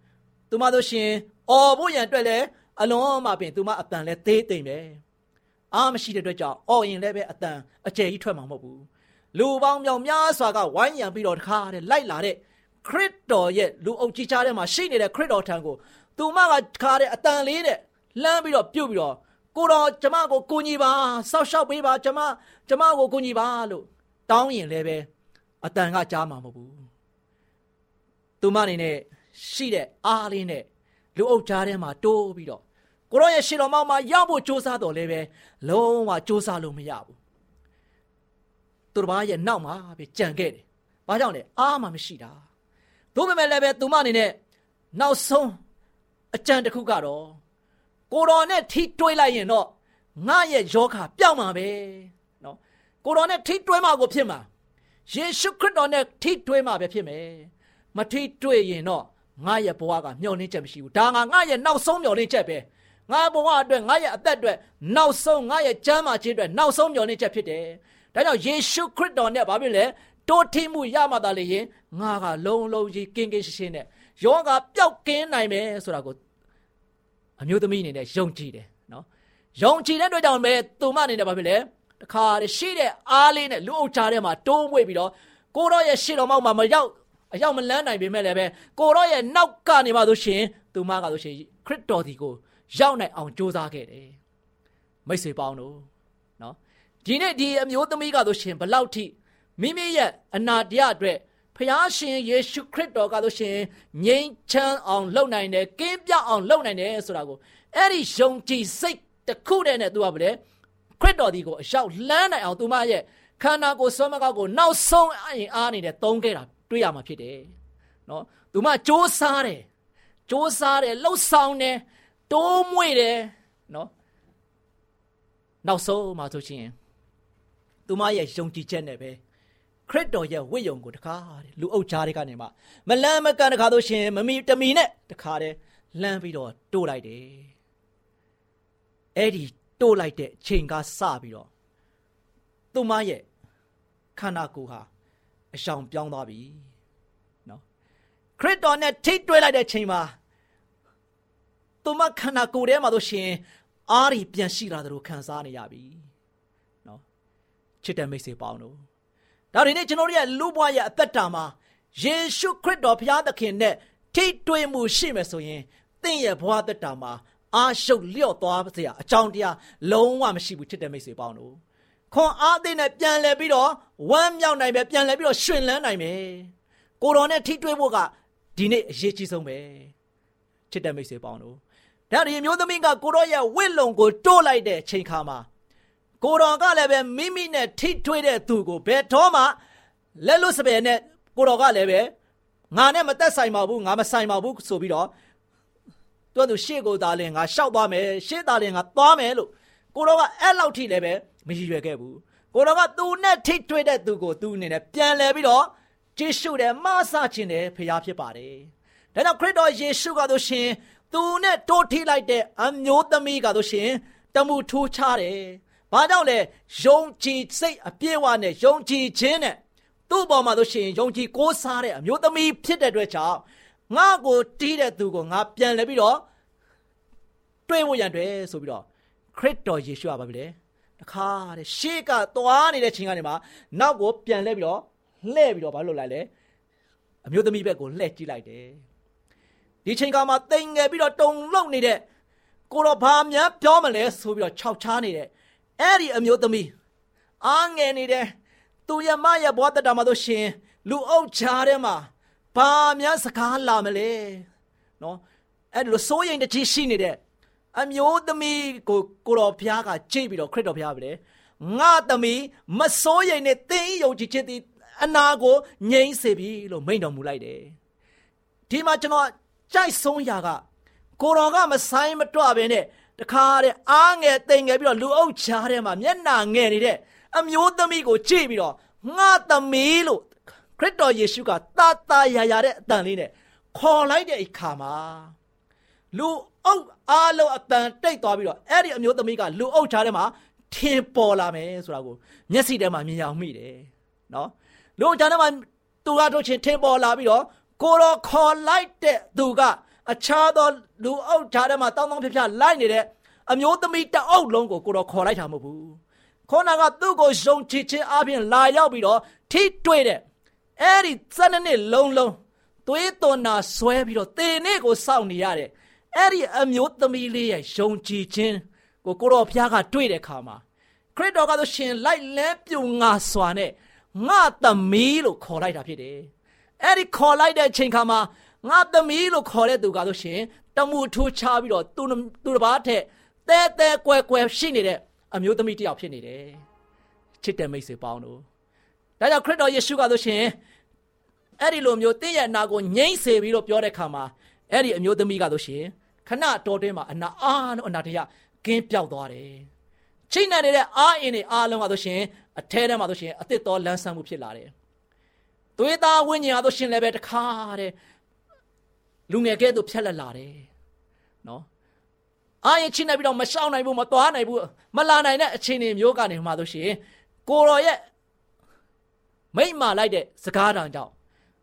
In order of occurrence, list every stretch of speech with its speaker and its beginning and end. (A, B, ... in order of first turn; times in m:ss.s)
0:00.5-0:05.0 A
0:05.7-0:25.1 A
0:25.6-0:26.8 A
0:28.4-0:37.2 A
0:38.9-0:42.4 A
0:43.1-0:44.4 A
0:44.9-0:45.6 A
0:46.3-0:47.4 A
0:48.1-0:54.5 A
0:55.1-1:16.2 A
1:17.4-1:19.0 A
1:19.6-1:34.2 A
1:35.1-1:35.9 A
1:36.4-1:50.4 A
1:51.0-1:57.5 A
1:58.1-1:59.7 A
2:00.3-2:03.9 A
2:05.6-2:06.7 A
2:07.9-2:09.2 A
2:09.9-2:17.5 A
2:19.2-2:21.5 A
2:22.7-2:23.2 A
2:24.2-2:24.9 A
2:25.5-2:26.6 A
2:28.4-2:30.2 A
2:31.8-2:36.1 A
2:37.8-2:38.8 A
2:39.5-2:51.6 A
2:52.1-2:59.9 A
3:00.7-3:01.6 A
3:02.1-3:05.5 A
3:06.2-3:09.6 A
3:10.2-3:12.1 A
3:12.7-3:15.1 A
3:16.3-3:39.6 A
3:40.1-3:46.2 A
3:47.7-3:56.3 A
3:57.2-3:58.8 A
3:59.8-4:02.0 A
4:02.7-4:06.7 A
4:07.4-4:08.3 A
4:08.9-4:14.5 A
4:15.7-4:17.2 A
4:17.7-4:27.8 A
4:28.7-4:30.6 A
4:31.2-4:45.3 A
4:46.1-5:10.2 A
5:10.8-5:20.6 A
5:21.2-5:36.6 A
5:37.4-5:38.4 A
5:39.2-5:40.6 A
5:41.6-5:49.7 A
5:50.3-5:54.7 A
5:55.8-5:57.9 A
5:59.3-6:00.7 A
6:02.6-6:08.0 A
6:09.5-6:11.1 A